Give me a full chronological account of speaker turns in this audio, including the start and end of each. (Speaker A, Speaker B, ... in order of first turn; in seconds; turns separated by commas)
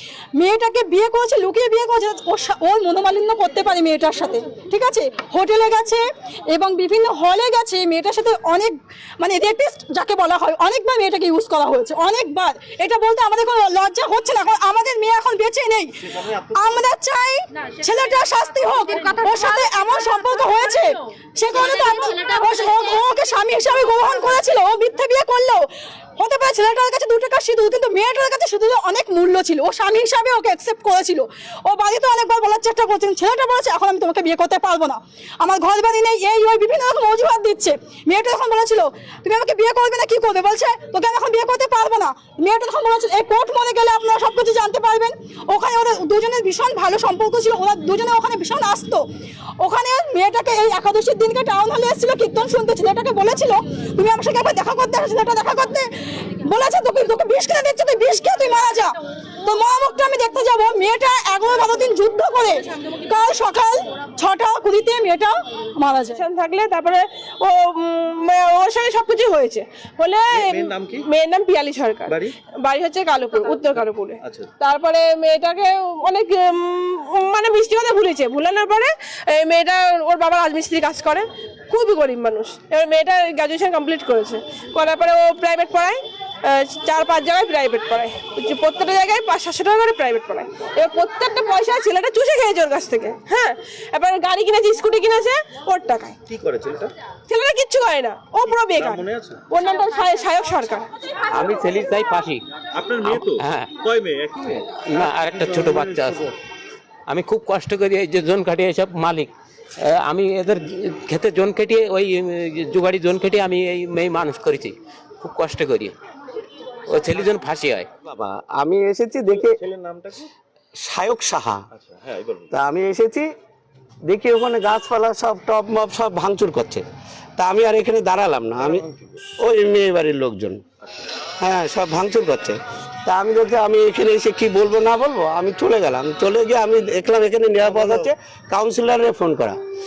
Speaker A: 0.4-49.1, Speaker A: 49.6-66.2, Speaker B: 66.1-96.2, Speaker C: 70.3-71.0, Speaker C: 72.1-72.3, Speaker C: 74.2-74.5, Speaker C: 96.3-96.9, Speaker B: 97.3-100.9, Speaker C: 98.5-99.4, Speaker D: 101.3-102.4, Speaker C: 102.7-106.3, Speaker D: 103.0-103.7, Speaker D: 104.7-106.3, Speaker D: 107.1-116.0, Speaker D: 116.9-117.9, Speaker E: 118.0-119.6, Speaker C: 119.4-120.3, Speaker E: 120.8-121.6, Speaker C: 121.7-122.5, Speaker E: 122.5-123.3, Speaker E: 124.0-126.8, Speaker E: 127.4-128.8, Speaker C: 128.6-129.1, Speaker E: 129.4-130.6, Speaker E: 131.4-139.6